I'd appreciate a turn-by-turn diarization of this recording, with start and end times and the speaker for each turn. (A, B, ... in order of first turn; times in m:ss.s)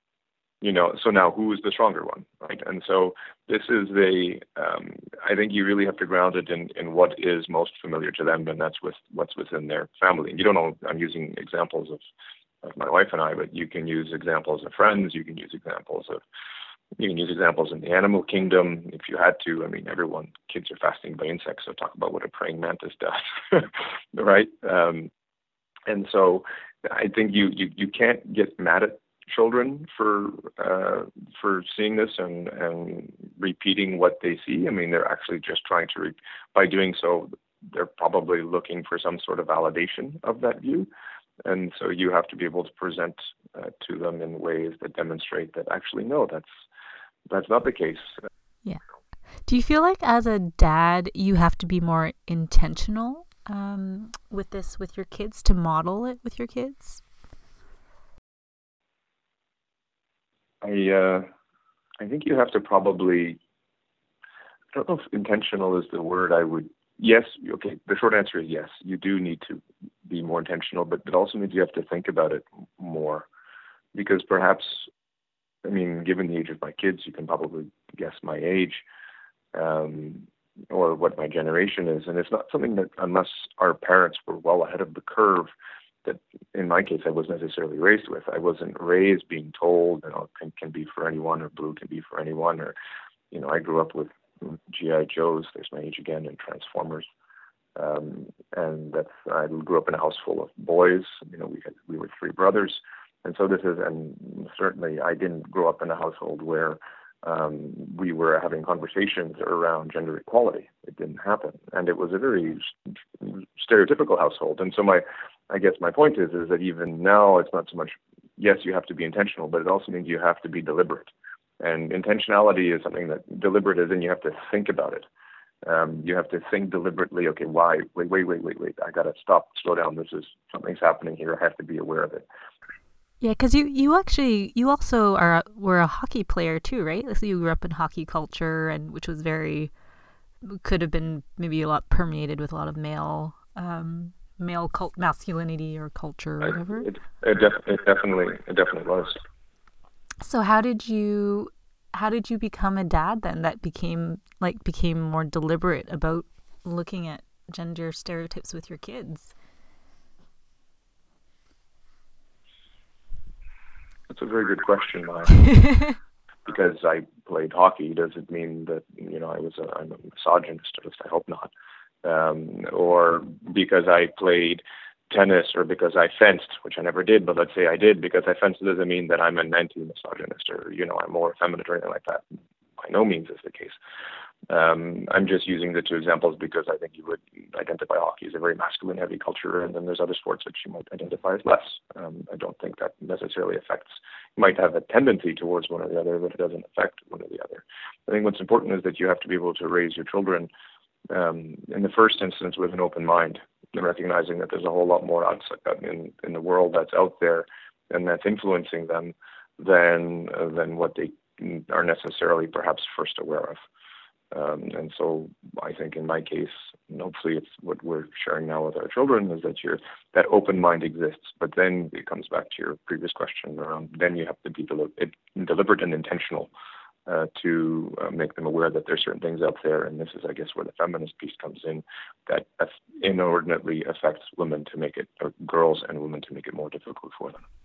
0:00.6-0:12.0 A
0:12.6-0:16.2 A
0:17.0-0:25.1 A
0:25.9-0:40.9 A
0:41.4-0:46.6 A
0:47.3-0:48.2 A
0:49.4-0:57.0 B
1:00.6-1:01.3 A
1:02.0-1:03.4 A
1:04.7-1:13.3 A
1:13.9-1:14.9 A
1:15.6-1:18.8 A
1:19.5-1:25.5 A
1:26.0-1:32.7 A
1:33.3-1:37.1 A
1:37.8-2:05.1 A
2:05.6-2:12.2 A
2:13.2-2:19.7 B
2:20.4-2:26.9 B
2:26.8-2:29.2 A
2:30.2-2:39.3 B
2:44.1-2:45.5 A
2:45.6-2:45.9 B
2:46.5-2:51.5 A
2:52.0-3:02.2 A
3:02.8-3:03.8 A
3:04.5-3:20.5 A
3:21.1-3:33.6 A
3:34.3-3:46.5 A
3:47.1-3:57.4 A